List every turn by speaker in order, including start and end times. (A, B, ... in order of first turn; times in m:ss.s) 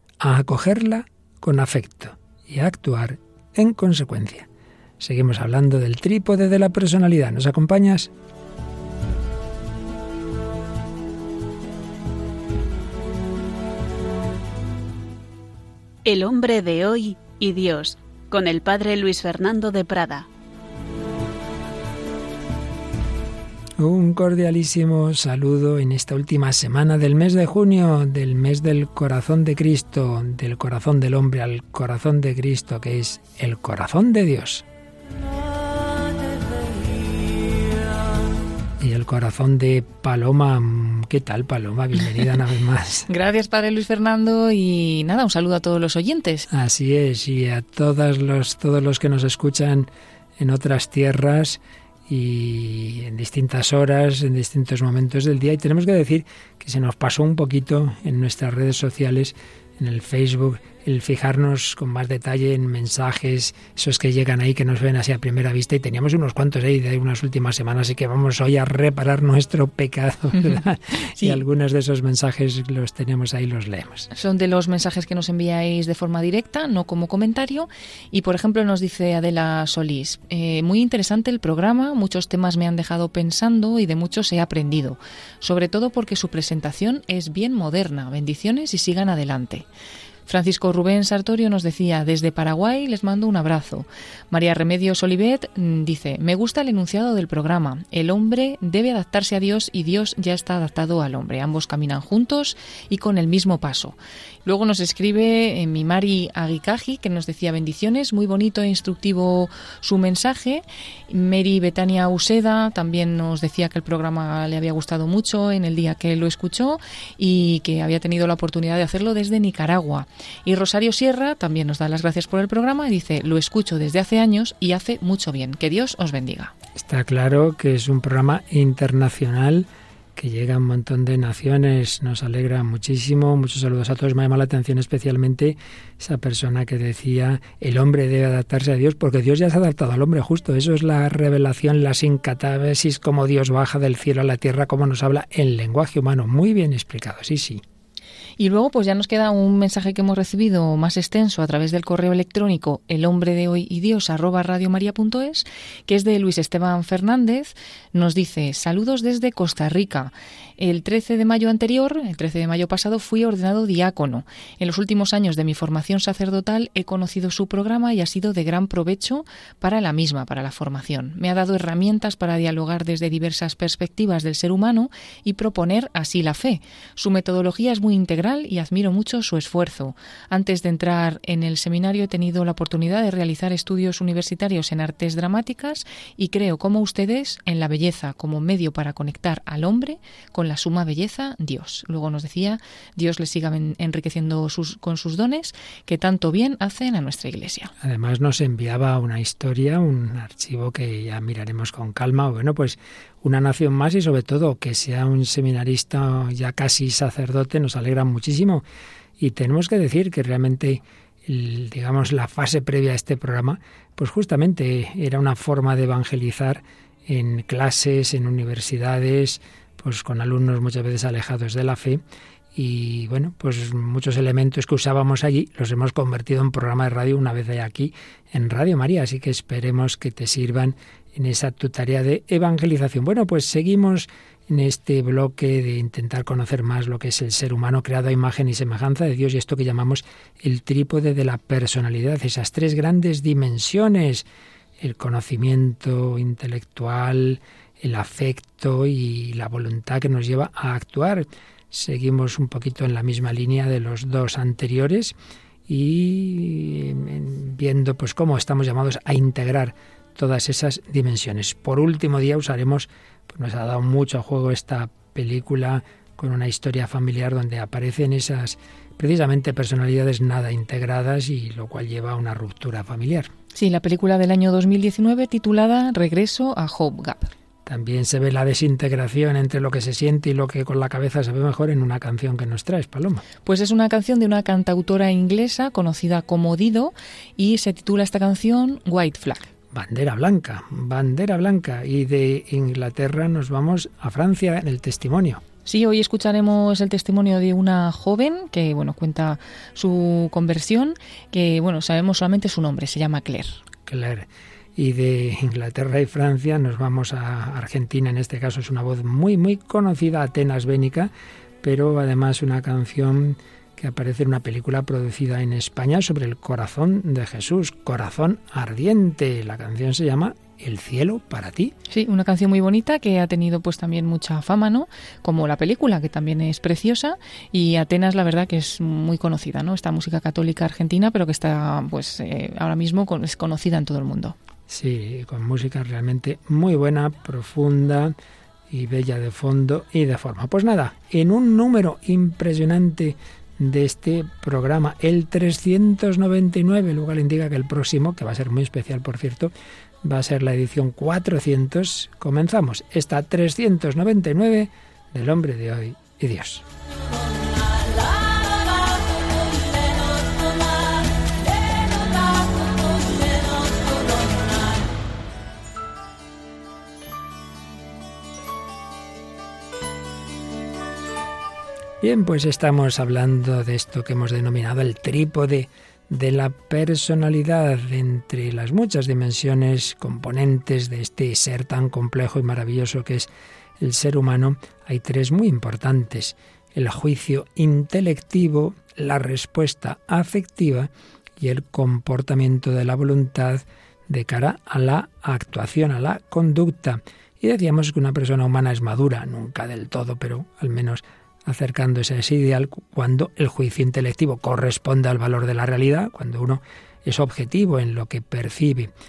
0:00.2-0:04.5 A
0:05.0-0:08.1 A
0:16.0-0:20.3 B
0:23.8-0:34.6 A
0:38.8-0:43.1 A
0:43.1-0:46.5 C
0:46.5-1:14.1 A
1:14.1-1:29.6 C
1:30.2-2:06.5 C
2:06.8-2:27.6 A
2:28.4-3:17.7 C
3:17.8-3:28.6 A
3:29.2-3:42.0 A
3:42.5-4:04.2 A
4:04.8-4:15.1 A
4:15.7-4:33.3 A
4:33.5-4:37.3 C
4:37.6-4:43.2 A
4:43.4-4:49.5 C
4:49.7-4:55.4 A
4:55.6-5:03.6 C
5:03.9-5:11.1 A
5:11.6-5:21.7 A
5:21.9-5:34.4 C
5:34.7-5:38.1 A
5:38.7-5:49.5 A
5:50.0-5:56.6 A
6:12.0-6:23.3 A
6:23.8-6:48.9 A